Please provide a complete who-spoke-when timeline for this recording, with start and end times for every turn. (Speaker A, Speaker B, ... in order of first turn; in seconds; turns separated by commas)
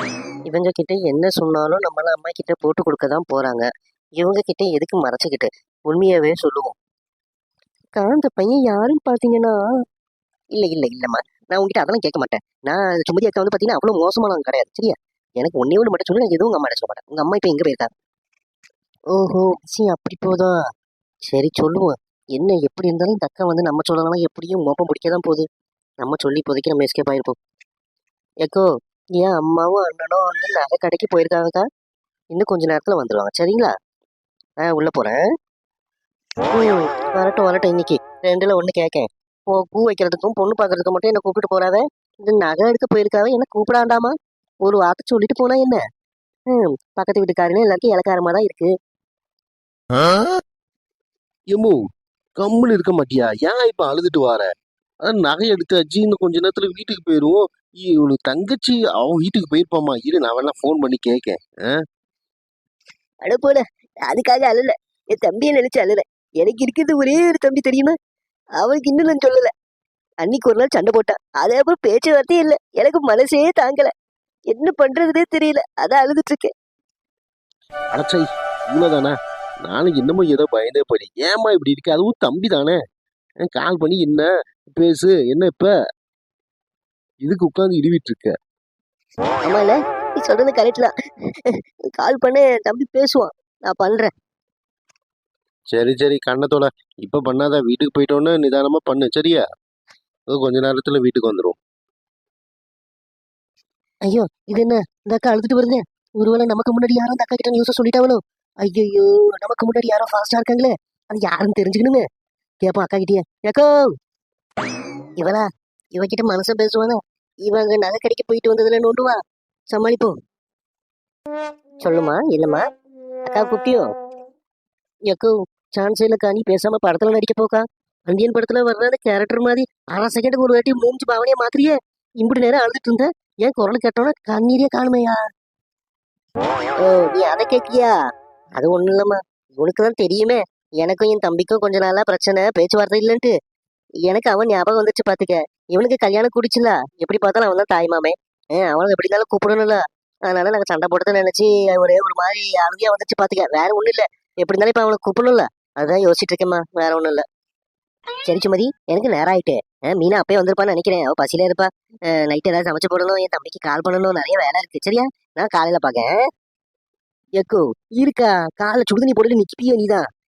Speaker A: 0.5-3.7, Speaker A: 4.2-6.7, Speaker A: 8.0-9.6, Speaker A: 10.5-17.9, Speaker A: 19.1-20.6, Speaker A: 21.3-25.4, Speaker A: 26.0-27.4, Speaker A: 29.2-31.6, Speaker A: 32.3-33.7, Speaker A: 34.6-35.2, Speaker A: 36.5-45.8, Speaker A: 46.5-48.7, Speaker B: 52.4-54.5, Speaker B: 55.0-61.8, Speaker A: 63.2-67.9, Speaker A: 68.6-69.5, Speaker A: 70.2-73.9, Speaker A: 74.5-76.5, Speaker B: 77.9-79.1, Speaker B: 79.6-82.8, Speaker B: 83.5-85.7, Speaker B: 87.2-88.3, Speaker A: 89.4-90.9, Speaker A: 91.5-94.1, Speaker B: 95.7-99.4, Speaker B: 100.3-101.6, Speaker A: 104.1-112.0, Speaker A: 112.6-113.9, Speaker A: 115.2-119.2, Speaker A: 119.7-120.1, Speaker A: 121.8-122.6, Speaker A: 123.2-123.8, Speaker A: 125.1-135.2, Speaker A: 136.8-137.9, Speaker A: 138.6-143.3, Speaker A: 144.1-157.2, Speaker A: 158.2-166.1, Speaker A: 167.4-170.1